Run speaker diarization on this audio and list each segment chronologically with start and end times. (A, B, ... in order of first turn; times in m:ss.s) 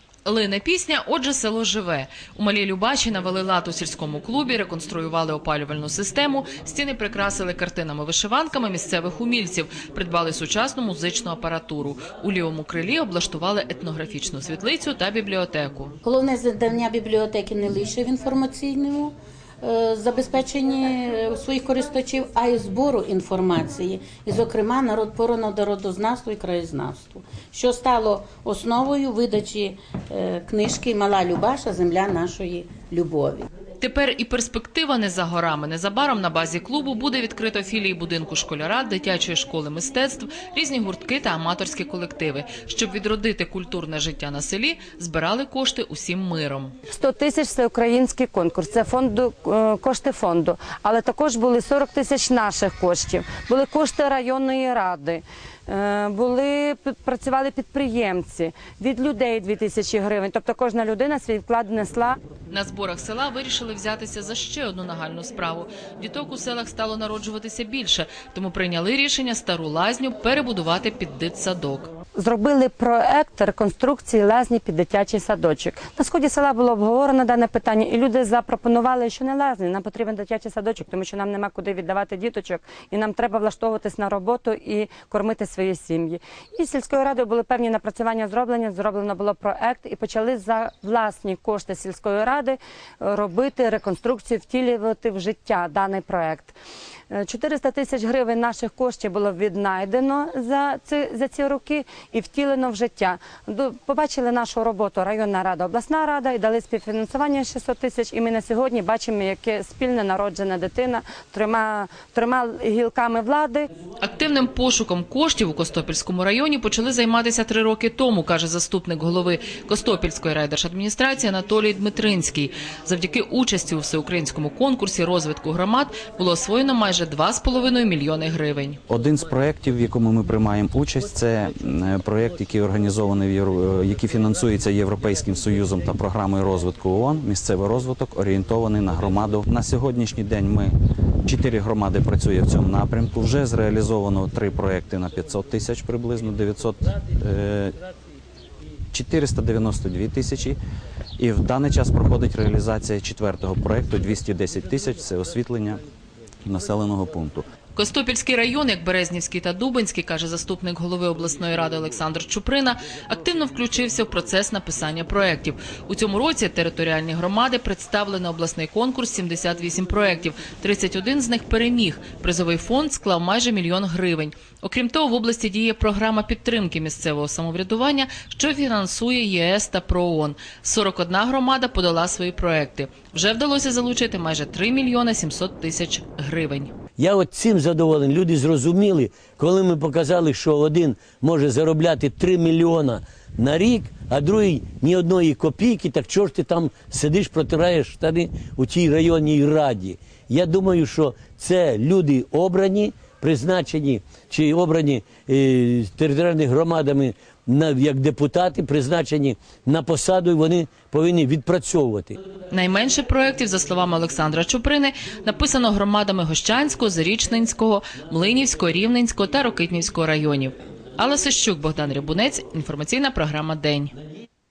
0:00.2-0:16.0 A
0:16.0-0:33.5 B
0:33.8-0:46.7 A
0:46.9-1:02.2 C
1:02.5-1:11.9 A
1:12.2-1:36.5 C
1:37.1-1:53.7 C
1:54.0-2:08.8 A
2:08.9-2:20.7 D
2:21.2-2:27.8 D
2:28.9-2:30.6 D
2:31.2-2:35.8 D
2:36.4-2:37.4 D
2:37.7-3:06.7 A
3:07.0-3:32.2 E
3:32.5-3:43.9 A